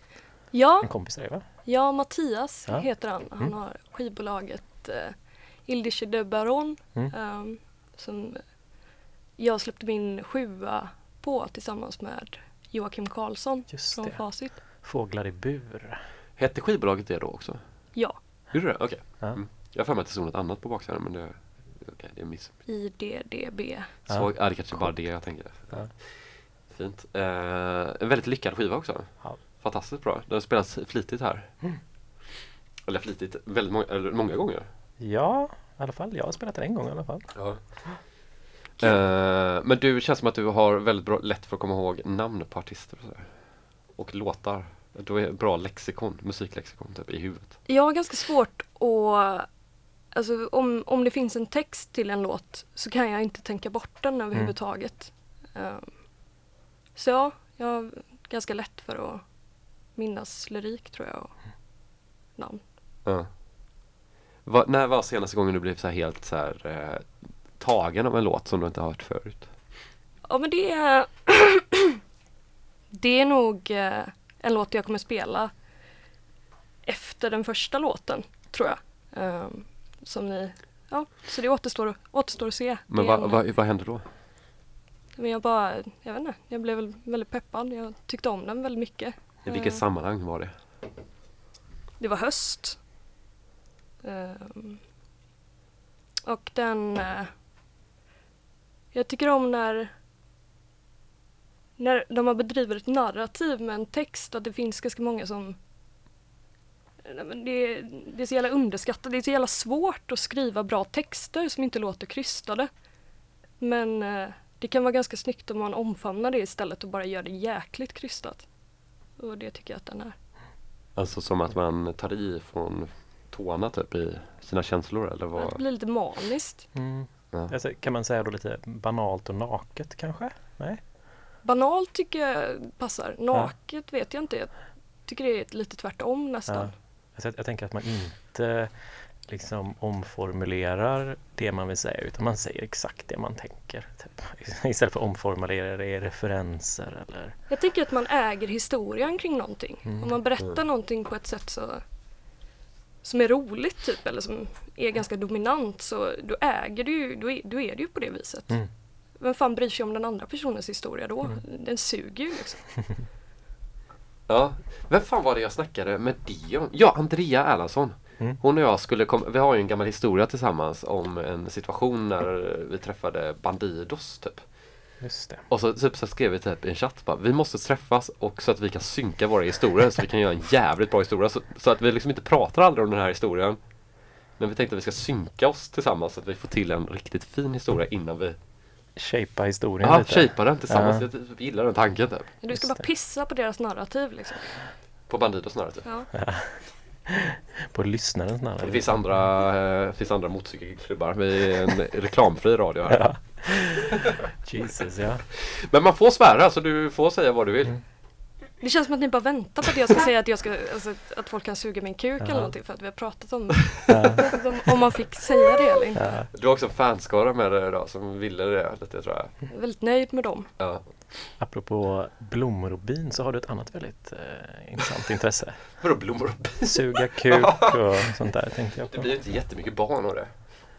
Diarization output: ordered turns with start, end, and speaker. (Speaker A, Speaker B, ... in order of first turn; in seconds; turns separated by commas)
Speaker A: 0.5-14.6, Speaker B: 0.8-1.4, Speaker B: 2.7-3.5, Speaker B: 13.7-16.0, Speaker C: 16.4-22.6, Speaker A: 17.9-18.2, Speaker A: 22.7-24.0, Speaker C: 24.1-31.6, Speaker B: 24.1-25.9, Speaker C: 32.9-34.7, Speaker B: 35.0-38.0, Speaker C: 37.4-38.2, Speaker C: 38.8-47.6, Speaker A: 47.7-49.5, Speaker A: 50.1-56.3, Speaker A: 57.0-61.6, Speaker A: 62.4-62.6, Speaker C: 63.0-63.4, Speaker C: 64.4-69.8, Speaker A: 70.2-72.0, Speaker A: 72.9-75.5, Speaker A: 76.8-83.4, Speaker C: 82.9-84.1, Speaker A: 85.2-89.8, Speaker C: 89.5-90.6, Speaker A: 92.0-92.8, Speaker A: 94.0-94.8, Speaker A: 96.2-97.4, Speaker A: 98.9-99.9, Speaker A: 101.8-105.6, Speaker A: 107.0-112.7, Speaker A: 113.6-118.5, Speaker A: 119.2-120.2, Speaker C: 121.0-125.6, Speaker A: 125.3-126.7, Speaker B: 126.8-130.8, Speaker A: 131.4-136.7, Speaker B: 136.5-147.4, Speaker A: 147.5-151.8, Speaker B: 149.8-150.2, Speaker A: 153.0-162.9, Speaker C: 164.3-174.9, Speaker B: 175.0-175.5, Speaker C: 175.5-188.4, Speaker B: 189.0-191.1, Speaker C: 189.8-192.3, Speaker A: 192.4-194.6, Speaker B: 192.5-192.8, Speaker C: 195.1-195.9, Speaker A: 195.8-196.1, Speaker B: 196.2-196.9, Speaker B: 197.7-199.3, Speaker C: 198.6-203.8, Speaker B: 202.9-205.2, Speaker C: 205.7-207.8, Speaker A: 208.6-216.2, Speaker B: 212.2-212.6, Speaker B: 213.9-214.4, Speaker B: 216.0-216.3, Speaker C: 216.3-219.3, Speaker A: 219.5-220.5, Speaker C: 220.6-221.2, Speaker B: 221.4-225.9, Speaker C: 225.8-230.5, Speaker B: 226.6-229.1